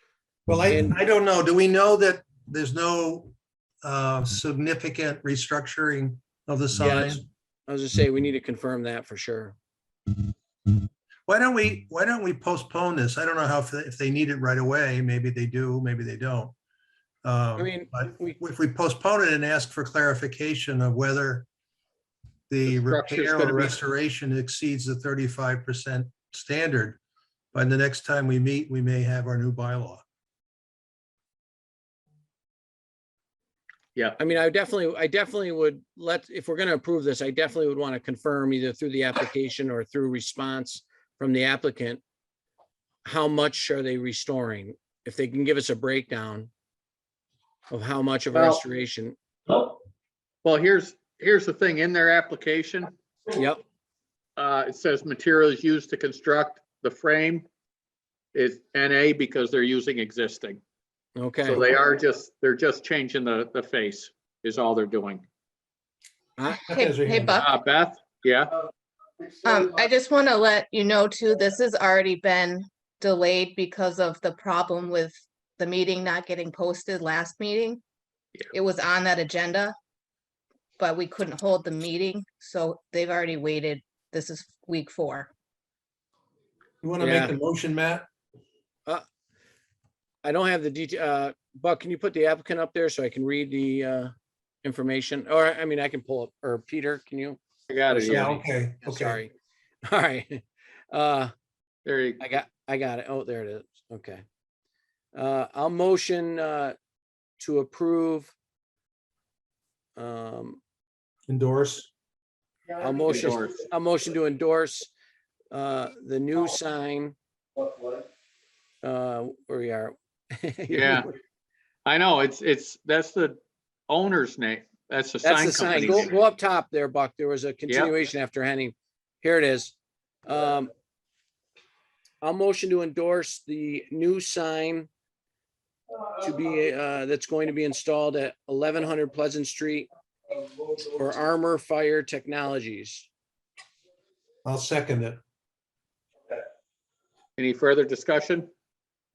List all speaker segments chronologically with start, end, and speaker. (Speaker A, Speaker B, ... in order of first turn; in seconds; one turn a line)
Speaker A: 0.5-7.2
Speaker B: 0.7-1.0
Speaker B: 6.8-9.6
Speaker A: 11.3-16.6
Speaker A: 17.2-21.5
Speaker B: 17.6-18.4
Speaker A: 22.5-27.0
Speaker C: 22.7-23.8
Speaker A: 27.5-30.0
Speaker B: 34.2-42.0
Speaker B: 43.0-46.5
Speaker B: 47.7-49.2
Speaker C: 48.3-48.6
Speaker C: 50.4-52.9
Speaker B: 53.3-53.6
Speaker C: 54.4-57.5
Speaker C: 58.3-60.6
Speaker B: 61.2-61.6
Speaker C: 61.4-65.2
Speaker D: 66.5-67.5
Speaker A: 66.7-67.5
Speaker C: 67.4-68.5
Speaker D: 69.4-77.8
Speaker D: 78.5-79.8
Speaker D: 80.8-85.3
Speaker A: 86.8-88.0
Speaker B: 87.0-87.3
Speaker B: 90.2-97.4
Speaker C: 97.7-98.4
Speaker B: 97.9-99.3
Speaker A: 98.0-99.2
Speaker B: 99.8-101.3
Speaker C: 101.8-102.2
Speaker B: 102.2-104.2
Speaker B: 105.2-106.8
Speaker B: 107.4-108.3
Speaker B: 110.0-110.6
Speaker A: 111.3-111.9
Speaker B: 112.8-114.9
Speaker C: 113.1-113.6
Speaker B: 115.5-117.2
Speaker B: 118.8-121.2
Speaker C: 120.7-121.1
Speaker C: 121.9-123.4
Speaker C: 123.9-126.1
Speaker B: 125.2-130.7
Speaker B: 132.2-134.9
Speaker B: 136.1-139.9
Speaker B: 140.8-143.1
Speaker A: 144.4-145.2
Speaker C: 147.4-148.5